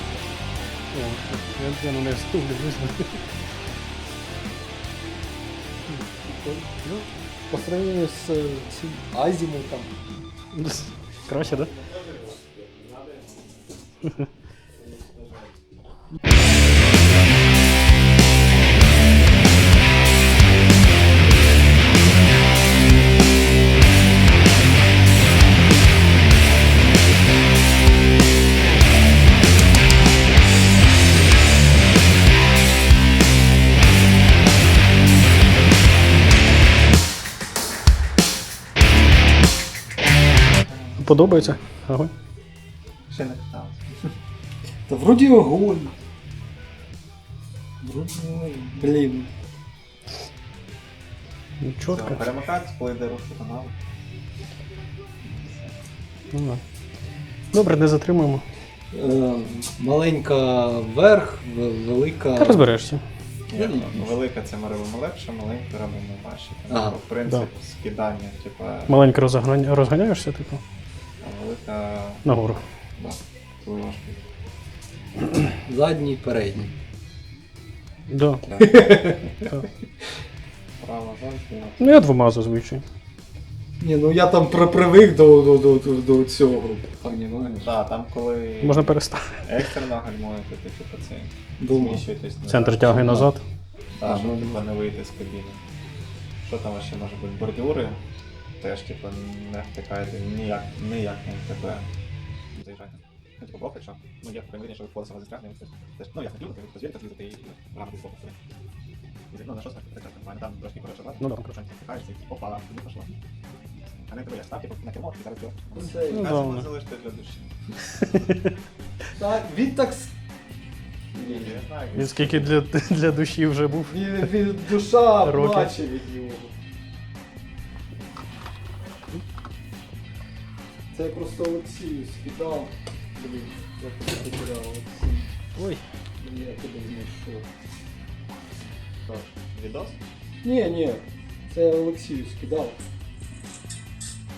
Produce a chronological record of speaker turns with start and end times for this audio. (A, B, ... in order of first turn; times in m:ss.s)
0:00.9-0:03.2 A
0:06.2-0:06.8 B
0:07.5-0:10.0 B
0:10.5-0:11.7 A
0:11.3-0:13.4 C
0:14.9-0:15.4 C
0:40.6-0:41.6 C
0:41.0-0:42.1 A
0:43.0-0:44.0 C
0:44.9-0:45.9 B
0:47.8-0:49.3 B
0:48.3-0:48.6 C
0:51.6-0:52.3 A
0:51.8-0:53.7 C
0:55.2-0:55.8 C
0:56.3-0:56.6 A
0:57.5-0:58.4 A
0:58.9-1:02.8 B
1:02.4-1:03.0 A
1:03.5-1:09.0 C
1:03.5-1:04.1 B
1:06.7-1:07.0 B
1:08.9-1:10.6 A
1:11.2-1:12.3 C
1:12.2-1:12.6 A
1:13.0-1:14.2 C
1:15.6-1:16.7 B
1:18.1-1:18.4 A
1:18.6-1:19.3 B
1:20.8-1:22.0 C
1:21.8-1:22.8 A
1:23.8-1:27.7 B
1:27.6-1:33.3 C
1:28.6-1:29.4 A
1:31.6-1:32.0 B
1:32.4-1:33.4 A
1:33.9-1:35.6 C
1:34.0-1:34.7 B
1:36.4-1:38.0 C
1:38.6-1:41.9 C
1:42.5-1:48.4 C
1:49.3-1:53.2 C
1:51.2-1:51.5 A
1:53.7-1:57.7 C
1:55.7-1:56.3 B
1:56.1-1:56.7 A
1:59.1-2:00.1 B
2:01.1-2:01.6 B
2:01.2-2:02.6 C
2:01.9-2:04.3 A
2:03.9-2:06.5 B
2:05.2-2:05.7 A
2:10.9-2:15.3 B
2:15.6-2:15.8 A
2:16.2-2:17.5 B
2:19.1-2:20.0 C
2:20.4-2:22.8 B